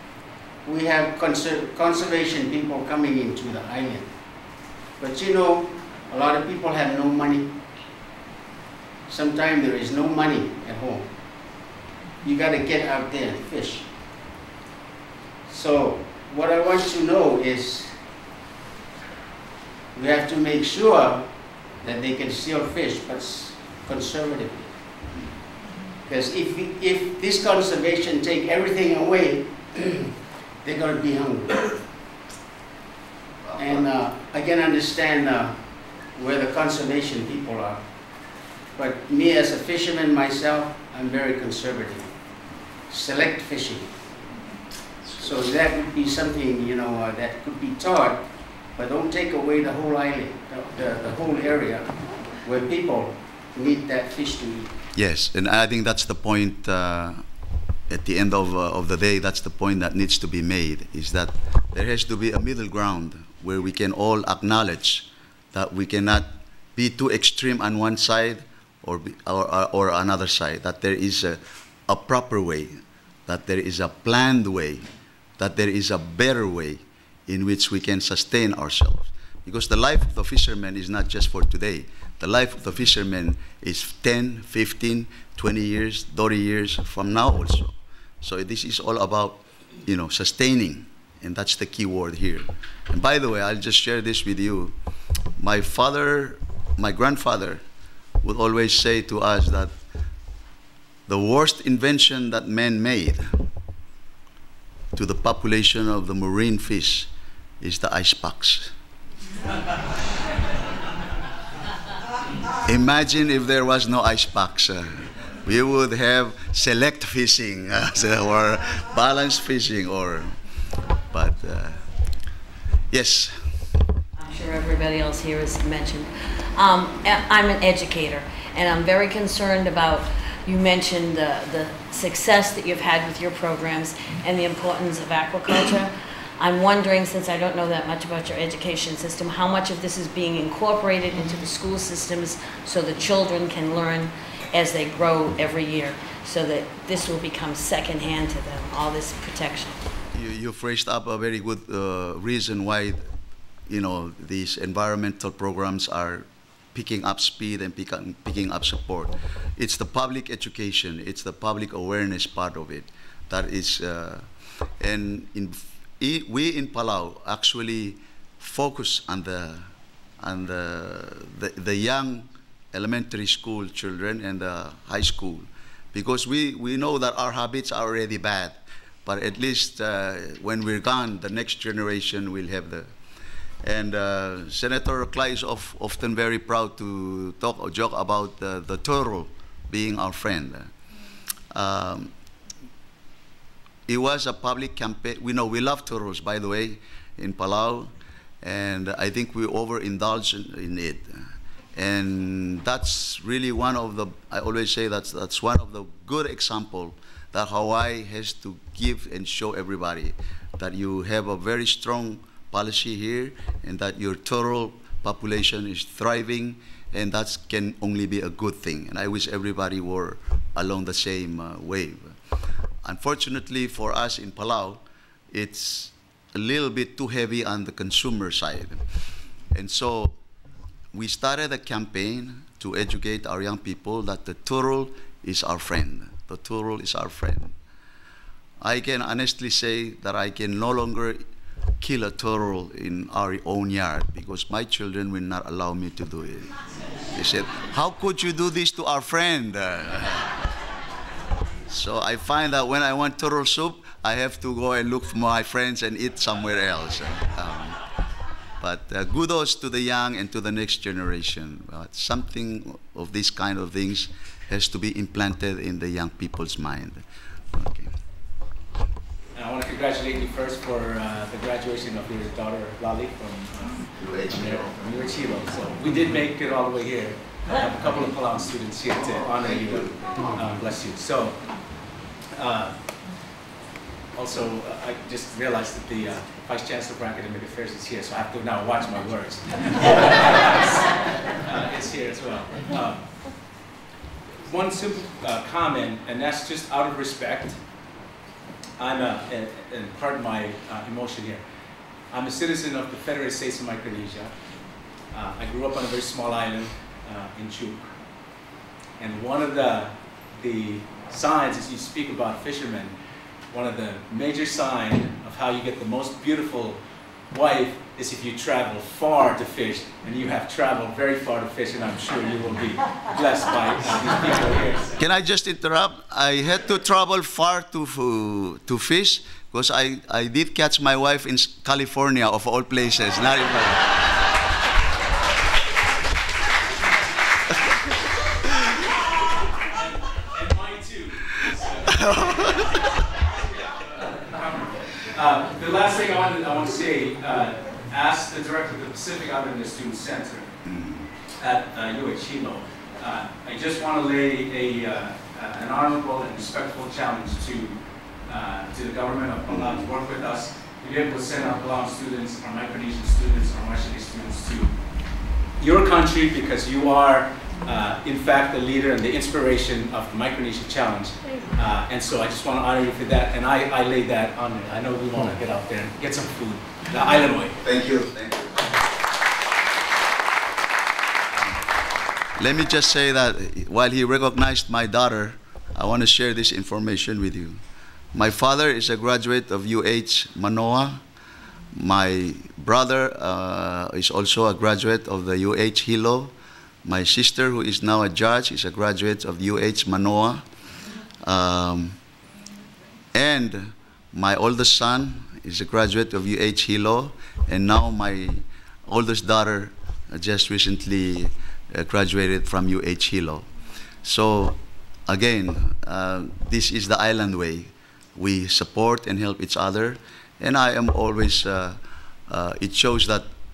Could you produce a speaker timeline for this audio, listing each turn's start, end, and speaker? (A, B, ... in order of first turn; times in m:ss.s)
0:00.6-0:07.5 A
0:09.1-0:11.7 A
0:12.2-0:13.9 A
0:15.5-0:18.0 A
0:19.9-0:24.8 A
0:26.0-0:30.1 A
0:30.6-0:31.8 A
0:33.6-0:37.8 A
0:38.7-0:42.1 A
0:42.9-0:44.0 A
0:45.1-0:54.7 A
0:54.9-0:57.2 B
0:57.9-1:14.8 B
1:15.4-1:34.7 B
1:35.4-1:37.6 B
1:38.2-1:39.7 B
1:41.1-1:43.4 B
1:44.9-1:47.1 B
1:47.6-1:48.7 B
1:52.6-2:00.4 B
2:01.1-2:01.8 B
2:02.9-2:03.5 B
2:04.2-2:29.9 C
2:30.1-2:33.1 B
2:33.7-2:44.3 B
2:44.8-2:49.7 B
2:50.2-3:02.9 B
3:03.6-3:10.7 B
3:11.5-3:12.1 B
3:13.9-3:17.9 B
3:18.4-3:21.1 B
3:21.7-3:42.2 B
3:42.8-3:48.8 B
3:49.5-3:50.2 B
3:50.9-3:57.5 B
3:58.6-4:01.2 B
4:01.8-4:06.5 B
4:07.1-4:10.4 B
4:11.7-4:17.8 B
4:18.6-4:27.9 B
4:29.3-4:41.6 D
4:34.0-4:35.2 B
4:39.4-4:40.4 B
4:42.3-4:42.9 D
4:44.1-4:53.1 D
4:54.4-4:57.6 D
4:58.8-5:01.4 D
5:02.1-5:04.3 D
5:05.1-5:07.9 D
5:09.0-5:12.9 D
5:13.5-5:16.8 D
5:17.3-5:25.0 D
5:25.0-5:33.9 B
5:40.3-5:42.1 D
5:41.9-5:42.6 B
5:44.2-5:50.5 D
5:50.6-5:51.1 B
5:51.4-6:04.8 D
5:59.5-5:59.9 B
6:05.6-6:17.6 D
6:17.6-6:18.6 B
6:22.4-6:27.6 B
6:28.1-6:31.0 B
6:31.7-6:36.3 B
6:36.8-6:40.4 B
6:41.2-6:42.0 B
6:43.1-6:53.5 B
6:54.0-7:03.3 B